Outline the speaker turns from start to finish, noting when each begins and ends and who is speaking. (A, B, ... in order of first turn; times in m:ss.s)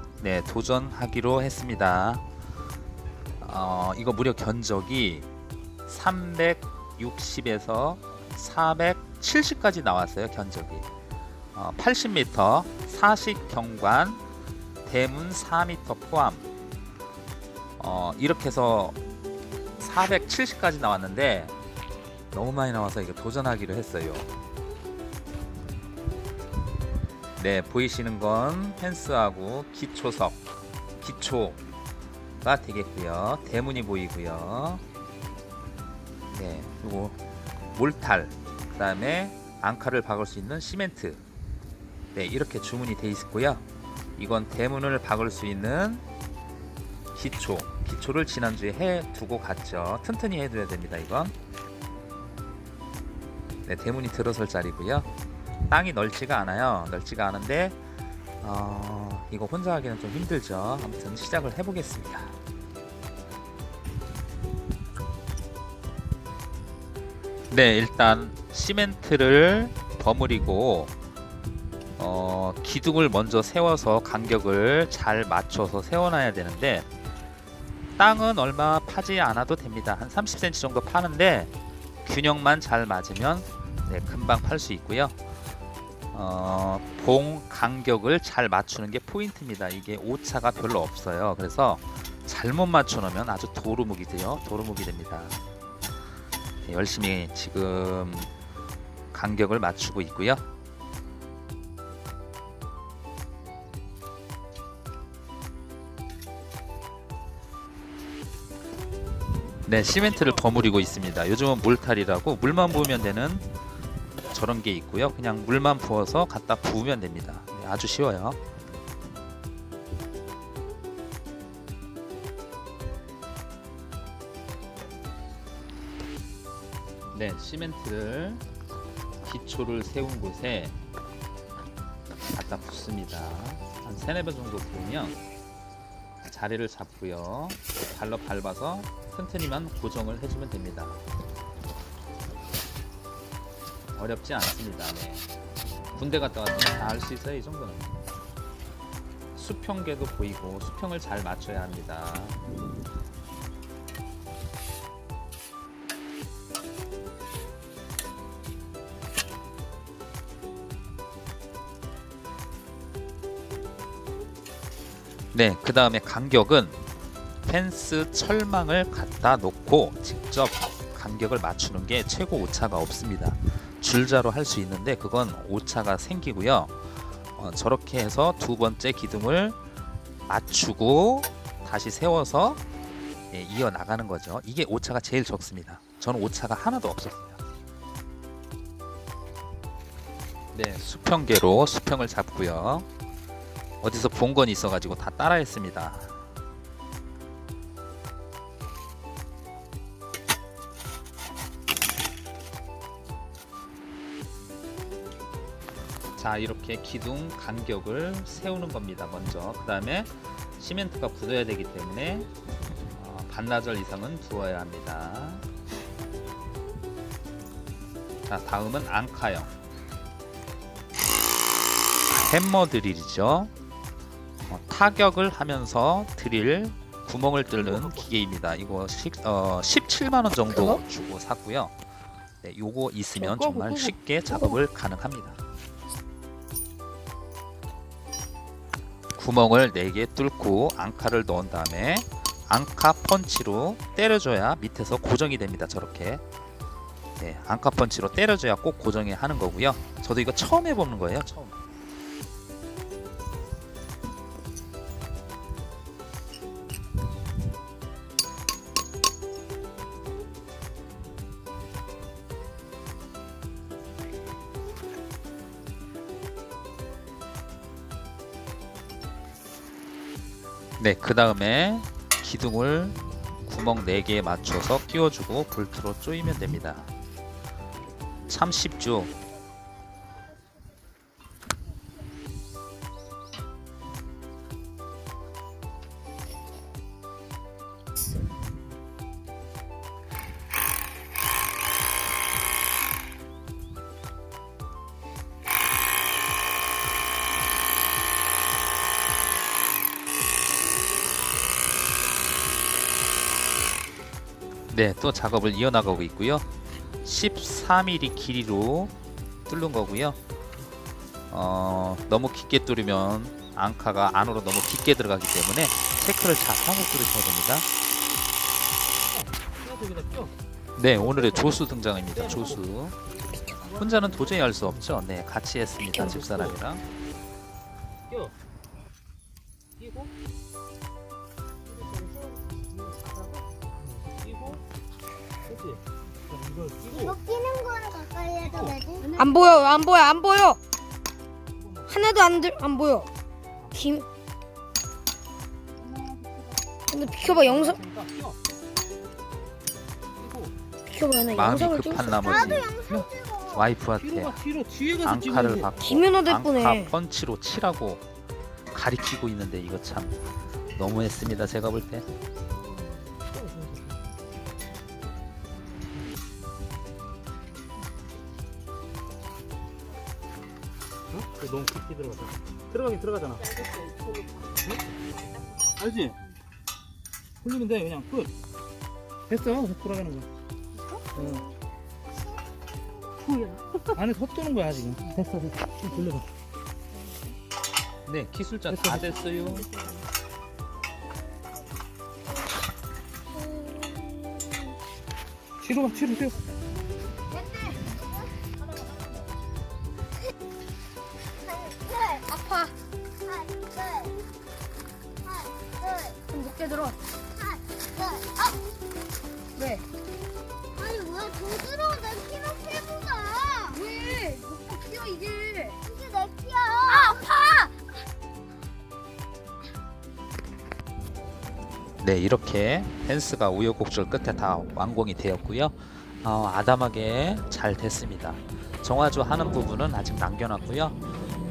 0:00.2-0:02.2 A
0:03.4-0:05.3 A
0:05.9-0:10.9 A
0:11.5-0:14.2 A
0:14.8-0:16.5 A
0:17.8-0:19.0 A
0:19.8-0:21.6 A
0:22.3-0:24.3 A
0:27.4-0:30.4 A
0:31.0-0:31.6 A
0:32.4-0:34.8 A
0:36.3-0:37.2 A
0:37.7-0:41.2 A
0:42.1-0:43.6 A
0:44.2-0:46.0 A
0:47.1-0:51.3 A
0:53.7-0:55.1 A
0:55.7-0:57.8 A
0:58.4-1:02.4 A
1:07.5-1:10.9 A
1:12.0-1:16.9 A
1:18.0-1:21.5 A
1:22.0-1:25.2 A
1:26.1-1:35.4 A
1:36.6-1:38.3 A
1:39.1-1:40.4 A
1:49.7-1:53.5 A
1:54.3-1:58.4 A
2:07.1-2:08.4 A
2:09.2-2:10.8 A
2:12.3-2:15.2 A
2:16.2-2:21.0 A
2:24.0-2:25.3 A
2:26.0-2:27.9 A
2:29.4-2:32.4 A
2:45.3-2:46.8 A
2:47.4-2:59.6 A
3:00.3-3:02.6 A
3:03.3-3:07.4 A
3:10.5-3:12.9 A
3:13.8-3:16.2 A
3:26.2-3:32.3 A
3:32.9-3:35.5 A
3:38.3-3:39.5 A
3:42.1-3:43.5 A
3:44.4-3:51.7 A
3:52.4-3:55.4 A
3:59.2-4:06.2 A
4:07.2-4:11.6 A
4:30.8-4:36.9 A
4:38.3-4:39.1 A
5:04.7-5:06.5 A
5:07.0-5:08.9 A
5:09.5-5:10.2 A
5:11.3-5:17.7 A
5:19.2-5:20.3 B
5:20.8-5:23.0 A
5:23.6-5:26.8 A
5:29.8-5:30.1 B
5:34.2-5:34.6 B
5:35.5-5:35.8 B
5:36.4-5:37.1 B
5:36.9-5:39.1 C
5:39.2-5:40.6 D
5:41.9-5:43.1 D
5:43.7-5:44.0 D
5:46.9-5:47.8 D
5:47.2-5:48.4 B
5:50.2-5:50.5 B
5:50.9-5:52.6 D
5:51.3-5:52.7 A
5:52.3-5:53.6 C
5:53.5-5:58.0 A
5:54.4-5:55.6 B
5:55.8-5:56.9 D
5:58.7-6:00.2 A
6:00.8-6:02.1 A
6:11.1-6:13.9 B
6:15.8-6:16.2 B
6:17.4-6:18.3 B
6:19.3-6:20.3 B
6:21.2-6:21.5 B
6:23.9-6:26.2 B
6:28.1-6:29.7 A
6:33.4-6:34.7 D
6:35.6-6:36.4 B
6:37.3-6:37.8 D
6:37.7-6:38.1 C
6:41.4-6:42.2 C
6:42.2-6:42.7 D
6:43.2-6:44.2 C
6:45.2-6:46.2 C
6:46.3-6:47.0 D
6:47.4-6:48.6 C
6:49.6-6:49.8 D
6:50.8-6:53.8 C
6:53.7-6:55.8 D
6:55.8-6:57.2 C
6:56.9-6:57.7 D
7:02.0-7:11.0 A